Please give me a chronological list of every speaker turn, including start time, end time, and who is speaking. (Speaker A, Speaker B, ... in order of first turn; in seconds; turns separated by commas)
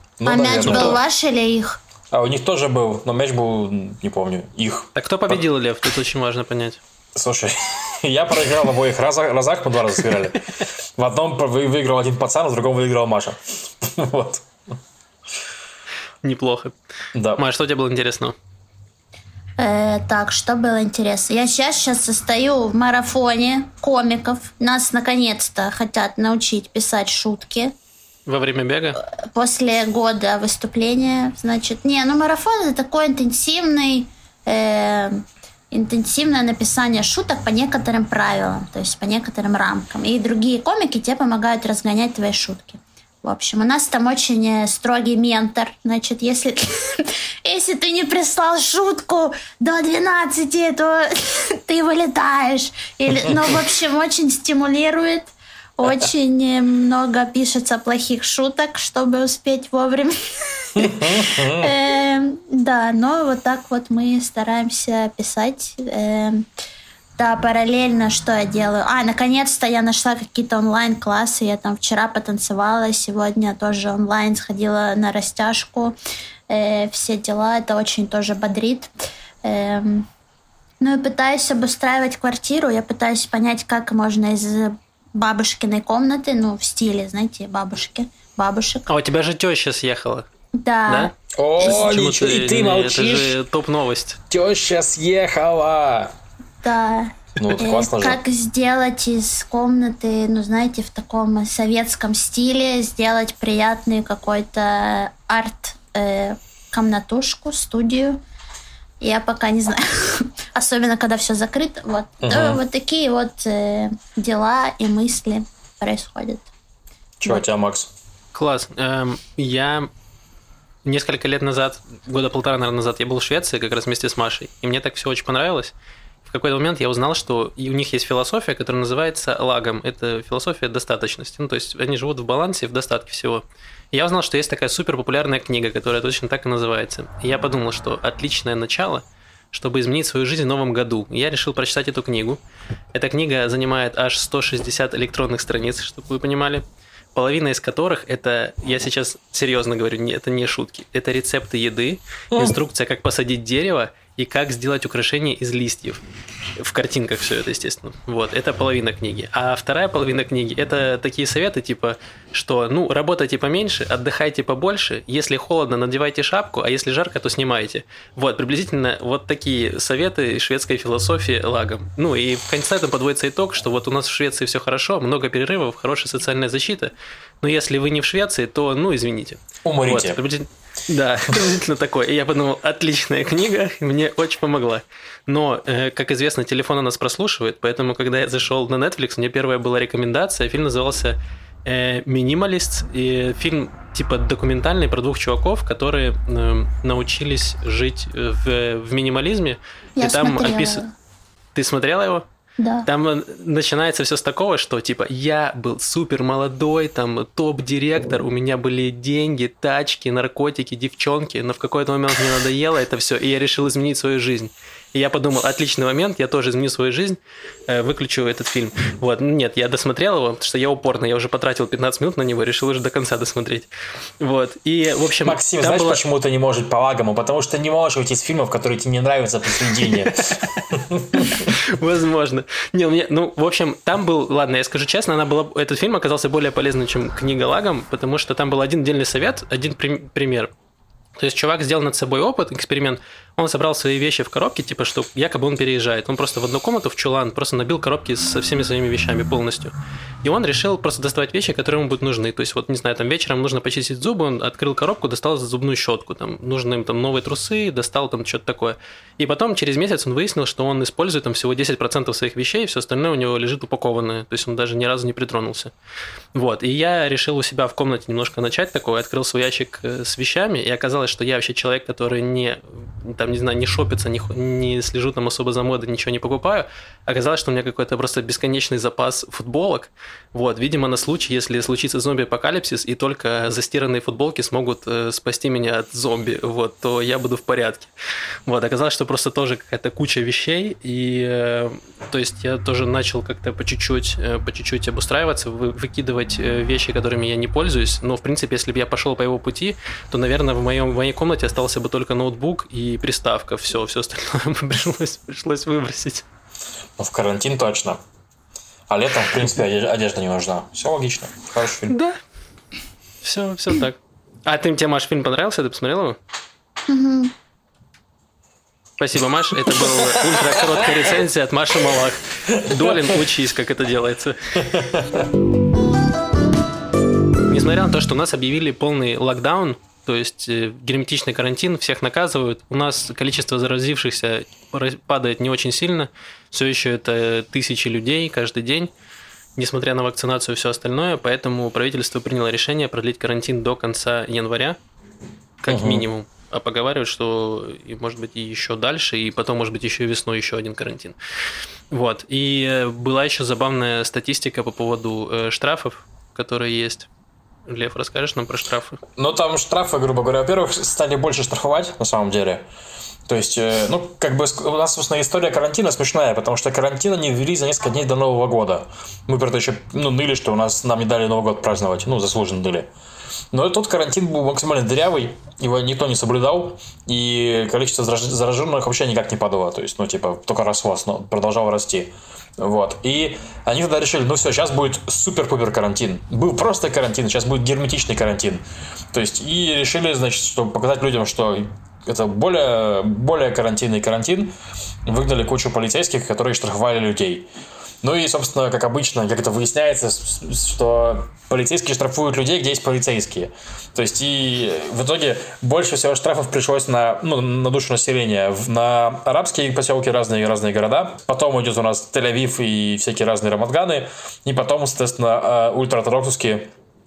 Speaker A: 0.2-1.0, Speaker B: 0.2-1.8, Speaker A: 2.1-5.4, Speaker C: 4.9-6.8, Speaker A: 7.1-14.5, Speaker C: 16.2-16.7, Speaker A: 17.1-17.4, Speaker C: 17.4-18.3, Speaker B: 19.6-27.7, Speaker C: 28.2-29.0, Speaker B: 29.0-66.5, Speaker A: 60.8-61.7, Speaker B: 67.2-75.9, Speaker B: 76.5-78.9, Speaker B: 79.4-80.1, Speaker B: 80.8-88.9, Speaker C: 88.9-90.3, Speaker B: 90.5-91.1, Speaker C: 90.9-94.2, Speaker A: 91.3-93.4, Speaker A: 94.3-96.1, Speaker B: 96.6-108.2, Speaker A: 97.4-98.2, Speaker B: 109.0-116.5, Speaker A: 112.2-112.6, Speaker A: 117.2-117.9, Speaker C: 118.3-119.9, Speaker C: 120.8-125.7, Speaker C: 126.2-142.4, Speaker C: 142.9-156.0, Speaker A: 152.3-152.6, Speaker C: 156.6-200.8, Speaker A: 179.6-180.2, Speaker B: 200.0-200.9, Speaker C: 201.5-202.2, Speaker B: 202.6-202.9, Speaker C: 202.8-223.7, Speaker C: 224.2-226.0, Speaker A: 225.2-231.5, Speaker C: 229.8-230.6, Speaker C: 231.1-240.5, Speaker C: 241.2-265.7, Speaker C: 266.3-287.9, Speaker C: 288.4-306.2, Speaker A: 307.0-308.0, Speaker A: 308.9-311.9, Speaker C: 311.9-312.2, Speaker C: 313.2-316.2, Speaker B: 316.9-317.3, Speaker C: 319.0-324.6, Speaker A: 319.8-320.9, Speaker A: 322.5-323.2, Speaker A: 324.6-325.3, Speaker C: 327.5-338.9, Speaker C: 339.6-344.8, Speaker C: 345.6-351.2, Speaker A: 345.7-346.1, Speaker C: 351.9-357.1, Speaker C: 357.7-359.0, Speaker A: 359.1-362.6, Speaker A: 363.3-372.9, Speaker A: 373.5-394.5, Speaker A: 395.1-397.5, Speaker A: 398.0-416.7